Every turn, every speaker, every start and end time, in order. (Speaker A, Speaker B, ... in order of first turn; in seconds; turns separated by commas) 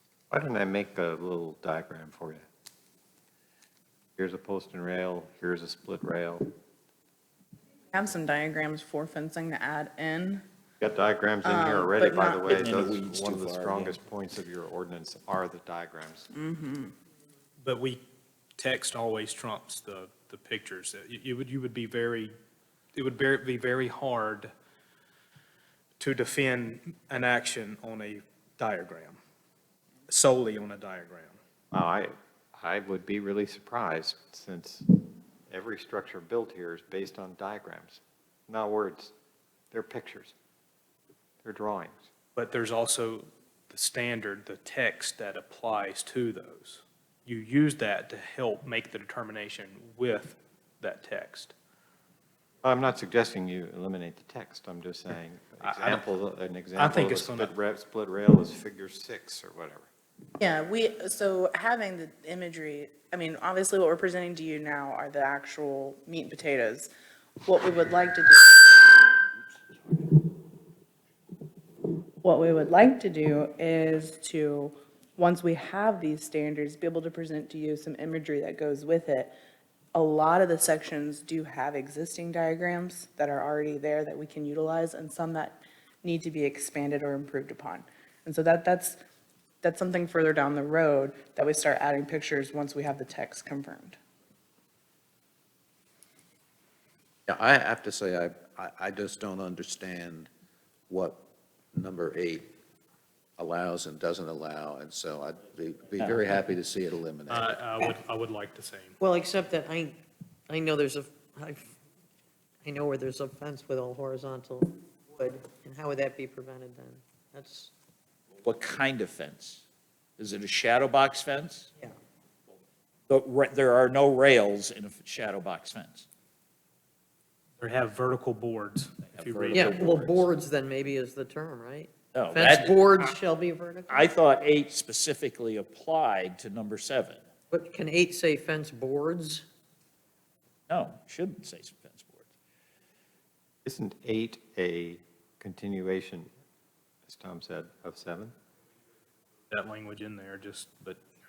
Speaker A: 0.3-2.5, Speaker A: 4.2-6.5, Speaker B: 7.9-10.4, Speaker A: 10.8-16.3, Speaker B: 11.4-12.5, Speaker C: 12.4-14.0, Speaker B: 16.3-16.9, Speaker D: 17.6-18.0, Speaker D: 18.6-22.3, Speaker D: 22.9-24.5, Speaker D: 26.0-29.2, Speaker D: 30.1-31.4, Speaker A: 31.7-39.1, Speaker A: 39.7-40.3, Speaker A: 41.4-42.1, Speaker D: 42.4-51.5, Speaker A: 52.6-59.9, Speaker D: 55.6-56.0, Speaker D: 56.8-57.5, Speaker B: 60.4-66.9, Speaker B: 67.5-68.9, Speaker B: 72.2-79.3, Speaker B: 79.9-89.0, Speaker B: 89.6-94.0, Speaker E: 97.3-100.3, Speaker E: 100.9-102.5, Speaker E: 103.4-107.6, Speaker D: 107.3-109.0, Speaker F: 109.0-111.7, Speaker F: 112.6-117.7, Speaker C: 118.4-119.7, Speaker C: 120.2-121.7, Speaker C: 123.1-126.1, Speaker D: 127.6-129.9, Speaker C: 129.1-130.3, Speaker F: 129.5-134.1, Speaker C: 132.1-133.1, Speaker C: 133.9-137.2, Speaker F: 137.5-139.5, Speaker C: 140.7-142.2, Speaker A: 143.7-146.3, Speaker A: 147.1-148.3, Speaker D: 149.5-151.0